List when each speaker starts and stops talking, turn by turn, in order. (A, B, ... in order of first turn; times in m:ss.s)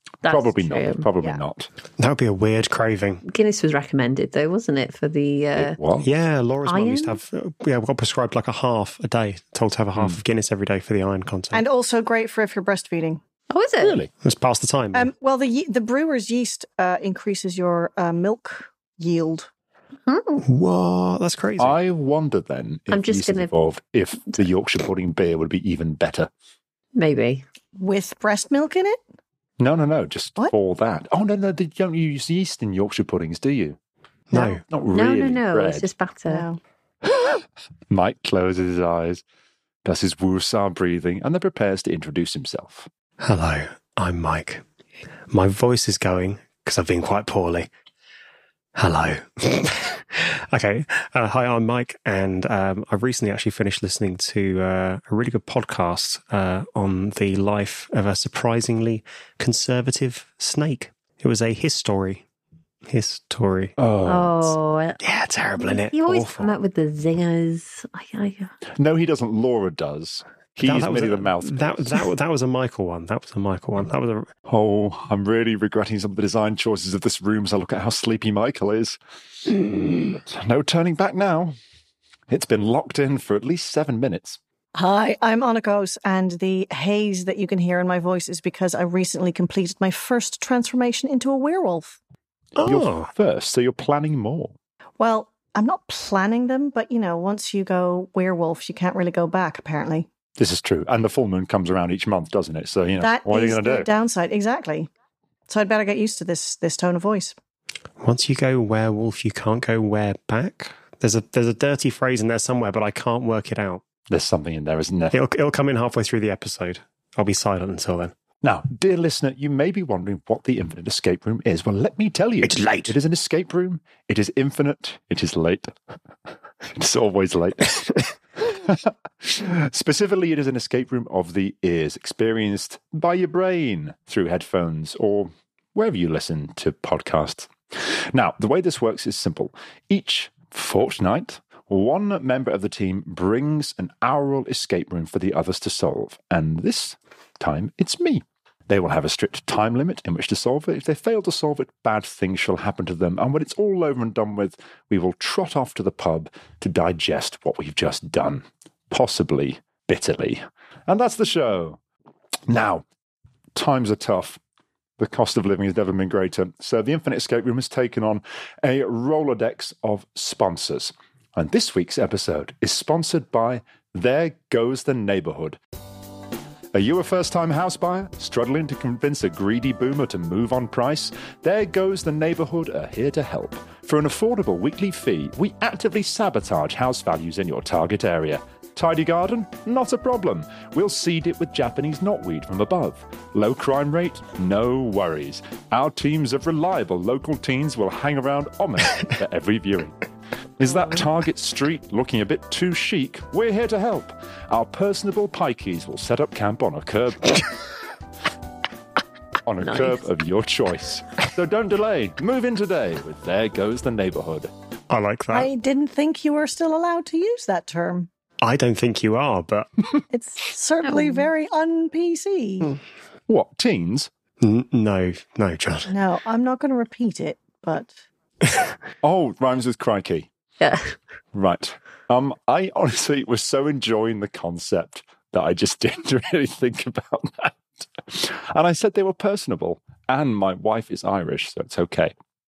0:00.2-0:01.1 A
0:00.2-0:01.7 B
0:02.0-0:03.2 C
0:03.2-0:05.8 A
0:05.6-0:06.1 B
0:06.0-0:11.6 C
0:06.6-0:07.2 A
0:10.0-0:10.2 B
0:11.5-0:13.2 D
0:13.5-0:14.0 A
0:13.8-0:14.1 B
0:14.2-0:15.1 C
0:14.9-0:19.5 D
0:20.1-0:20.4 A
0:20.4-0:21.8 C
0:21.6-0:26.3 B
0:22.9-0:23.5 A
0:26.9-0:27.4 A
0:27.8-0:29.0 D
0:29.6-0:33.8 B
0:34.3-0:34.6 C
0:34.7-0:35.9 B
0:34.9-0:36.5 A
0:36.3-0:36.6 D
0:37.9-0:39.2 B
0:39.8-0:42.9 B
0:43.2-0:44.6 C
0:45.3-0:47.7 C
0:48.8-1:02.2 C
1:02.9-1:03.7 C
1:03.8-1:04.5 B
1:04.0-1:05.0 A
1:05.0-1:06.5 C
1:05.6-1:08.5 A
1:08.8-1:12.0 B
1:10.6-1:14.3 C
1:14.5-1:19.0 B
1:20.1-1:21.6 B
1:22.3-1:24.4 B
1:24.7-1:32.0 D
1:32.6-1:33.1 C
1:32.6-1:34.5 B
1:35.0-1:40.1 D
1:40.4-1:43.9 B
1:43.0-1:44.9 D
1:45.5-1:47.4 D
1:48.0-1:53.8 C
1:54.1-1:55.2 B
1:55.1-1:58.1 C
1:58.4-2:05.7 B
2:02.4-2:02.9 C
2:06.7-2:41.8 B
2:42.5-2:42.8 B
2:43.5-2:44.4 B
2:45.0-2:55.6 B
2:56.7-3:20.0 B
3:20.6-3:27.4 B
3:29.4-3:34.5 B
3:29.6-3:30.0 A
3:34.9-3:35.5 C
3:35.3-3:38.1 D
3:38.4-3:40.0 C
3:40.1-3:42.8 D
3:40.8-3:41.2 A
3:43.3-3:44.1 B
3:44.4-3:45.9 C
3:45.9-3:48.0 D
3:49.0-3:50.3 B
3:50.6-3:51.0 A
3:51.3-4:02.1 B